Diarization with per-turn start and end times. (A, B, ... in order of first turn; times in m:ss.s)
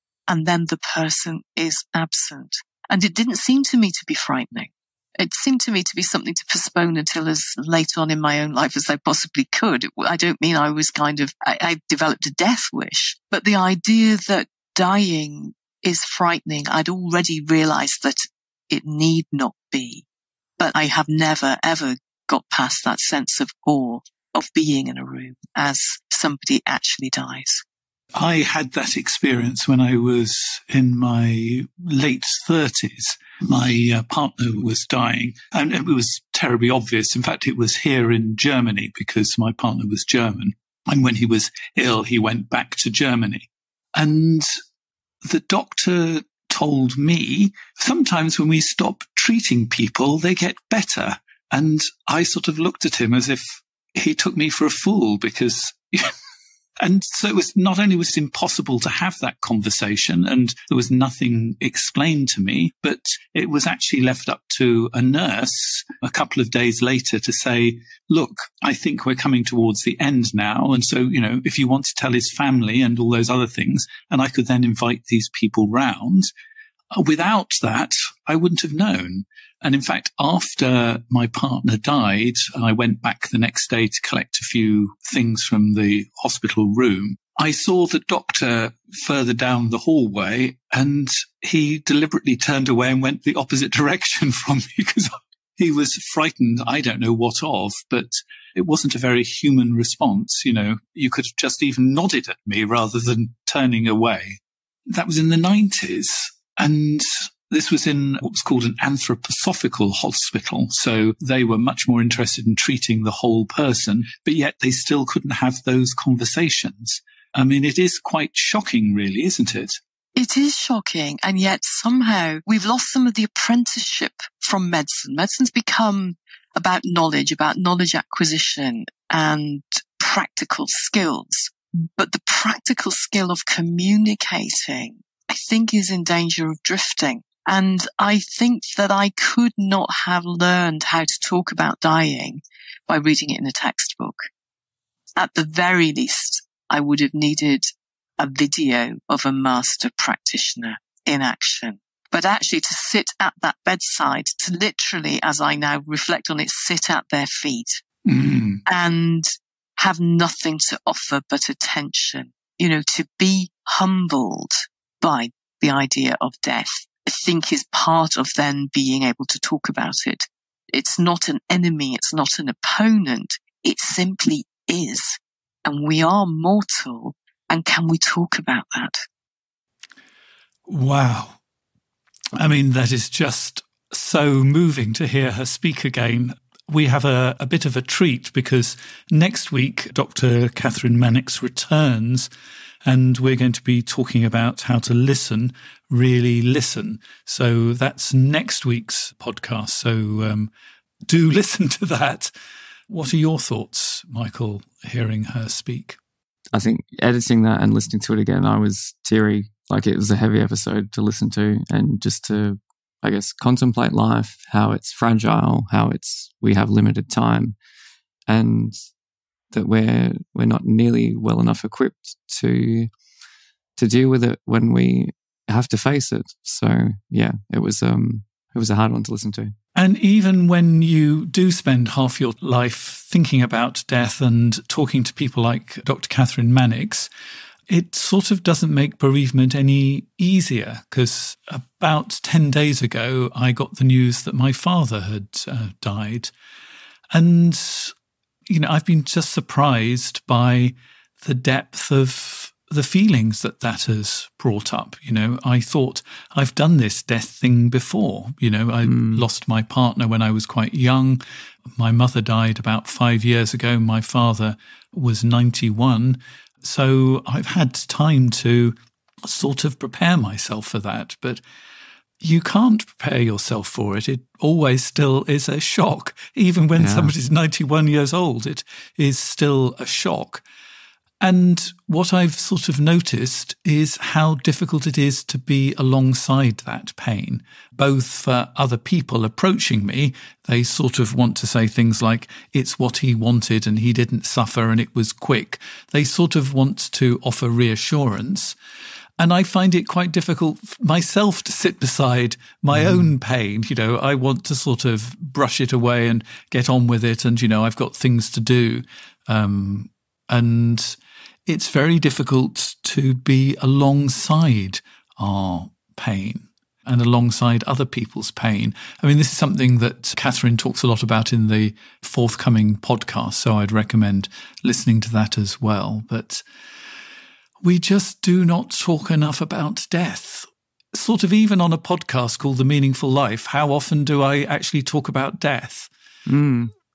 0:00.3-0:20.0 A
0:20.6-0:27.6 A
0:28.1-0:44.5 B
0:45.2-0:56.1 B
0:56.8-1:16.3 B
1:16.9-1:59.8 B
2:00.2-2:24.3 A
2:25.2-2:37.8 A
2:38.0-2:38.6 B
2:38.7-2:59.0 A
3:00.7-3:01.4 B
3:02.4-3:12.3 B
3:12.8-3:20.5 B
3:21.1-3:22.3 B
3:22.9-3:26.0 B
3:26.5-3:37.6 C
3:38.3-3:38.8 C
3:39.5-3:42.9 C
3:43.8-3:49.5 C
3:49.7-3:57.1 B
3:57.7-4:06.3 B
4:07.1-4:07.9 B
4:08.5-4:21.2 B
4:18.8-4:19.2 C
4:21.8-4:31.4 B
4:32.2-4:40.4 B
4:36.8-4:37.1 C
4:41.2-4:58.6 B
4:59.2-5:26.4 B
5:02.7-5:03.1 C
5:27.6-5:35.9 B
5:36.3-5:36.7 C